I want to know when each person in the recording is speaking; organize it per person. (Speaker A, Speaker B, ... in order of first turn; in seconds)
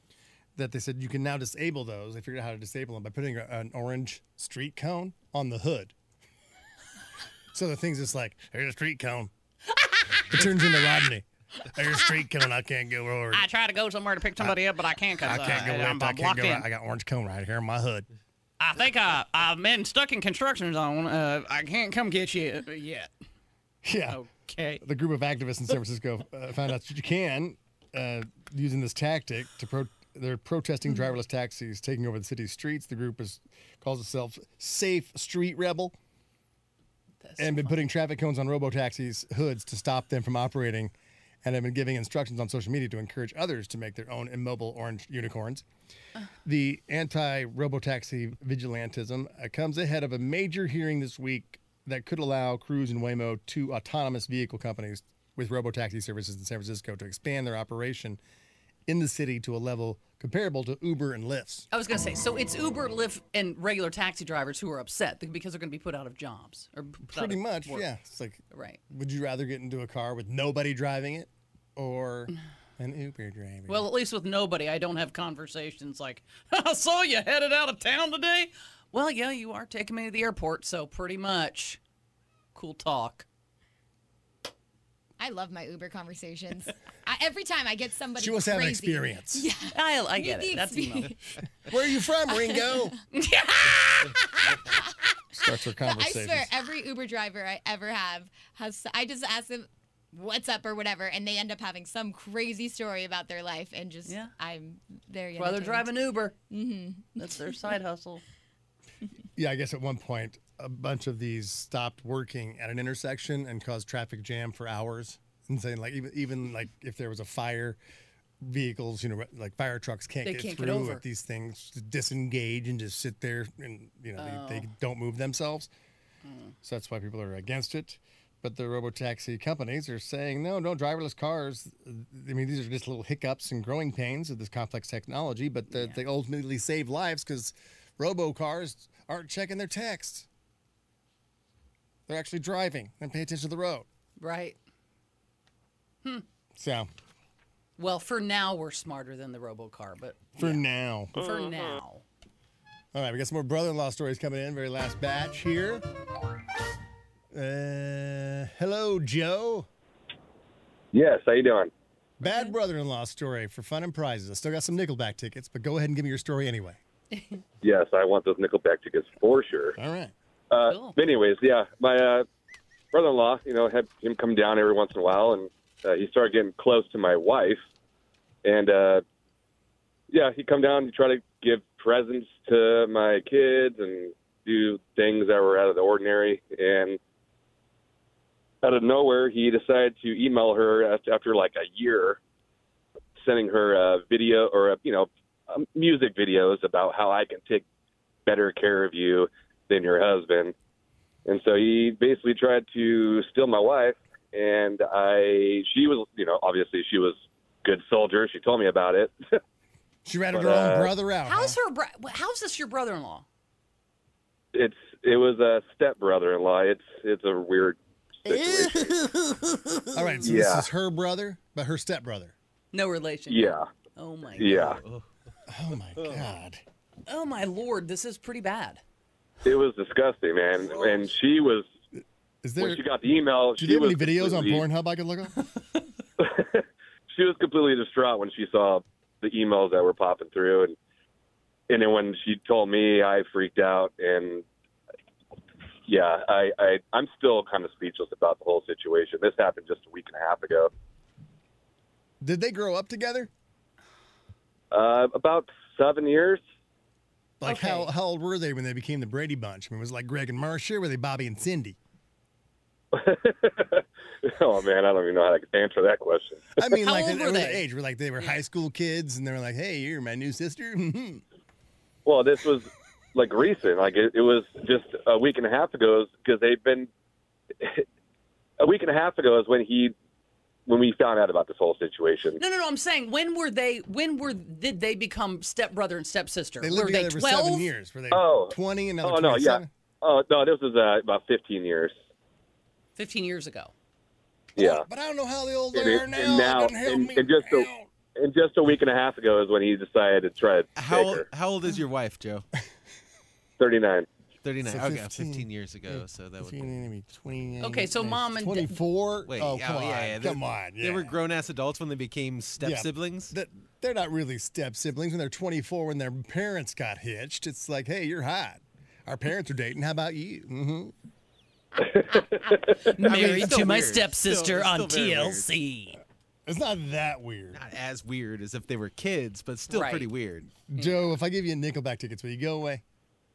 Speaker A: 0.6-5.9, 7.5-9.3, 10.3-13.5, 15.2-18.1, 23.8-24.2, 24.8-36.0, 37.4-40.9, 41.4-45.6, 46.5-58.2, 58.9-61.7, 67.1-73.9, 88.2-89.5, 91.6-93.0, 95.4-96.5, 109.4-117.8, 118.4-125.7, 126.6-140.3, 142.1-143.9, 146.6-146.9, 150.4-151.2, 152.9-155.8, 157.3-159.7, 162.2-166.8, 169.8-170.1, 210.1-211.6, 219.9-222.3, 225.5-226.6, 232.4-232.8, 233.6-235.4, 252.2-253.3, 257.4-261.8, 266.6-271.2, 286.6-289.7, 294.6-297.9, 304.6-311.1, 312.6-320.9, 326.5-327.6, 330.7-332.8
Speaker B: 13.3-16.7, 18.6-23.1, 24.1-24.8, 37.2-37.8, 61.7-67.9, 68.5-68.8, 73.7-81.8, 82.5-83.3, 89.7-91.1, 93.1-94.5, 104.1-104.3, 105.4-106.4, 107.2-108.2, 120.2-121.0, 124.2-124.7, 126.2-126.6, 135.7-136.0, 144.2-144.6, 147.8-152.1, 162.2-162.6, 167.1-167.4, 170.6-171.0, 211.2-213.3, 222.7-224.8, 227.1-228.8, 257.4-257.9, 266.7-267.6, 282.4-287.7, 293.0-293.7, 307.6-308.8, 322.7-326.0, 329.7-330.1, 330.8-331.0
Speaker C: 85.2-91.4, 92.5-92.8, 95.8-107.3
Speaker D: 160.9-161.7, 167.6-169.8, 170.5-172.3, 172.9-177.6, 178.4-179.0, 180.1-187.0, 188.6-192.2, 193.2-197.6, 198.3-200.5, 201.3-209.3, 210.3-210.9, 214.5-219.0, 220.2-220.7, 223.3-223.7, 224.4-224.8, 229.4-231.7, 232.6-234.6, 236.2-240.8, 241.7-244.4, 245.9-250.7, 254.7-256.4, 262.9-266.6, 272.1-276.9, 278.6-279.9, 280.7-282.4, 288.1-291.9, 294.6-294.8, 295.7-301.2, 303.6-304.1
Speaker E: 218.3-218.9, 224.6-225.1, 300.8-302.5, 304.4-306.7, 309.3-313.3, 322.9-325.5, 327.5-330.5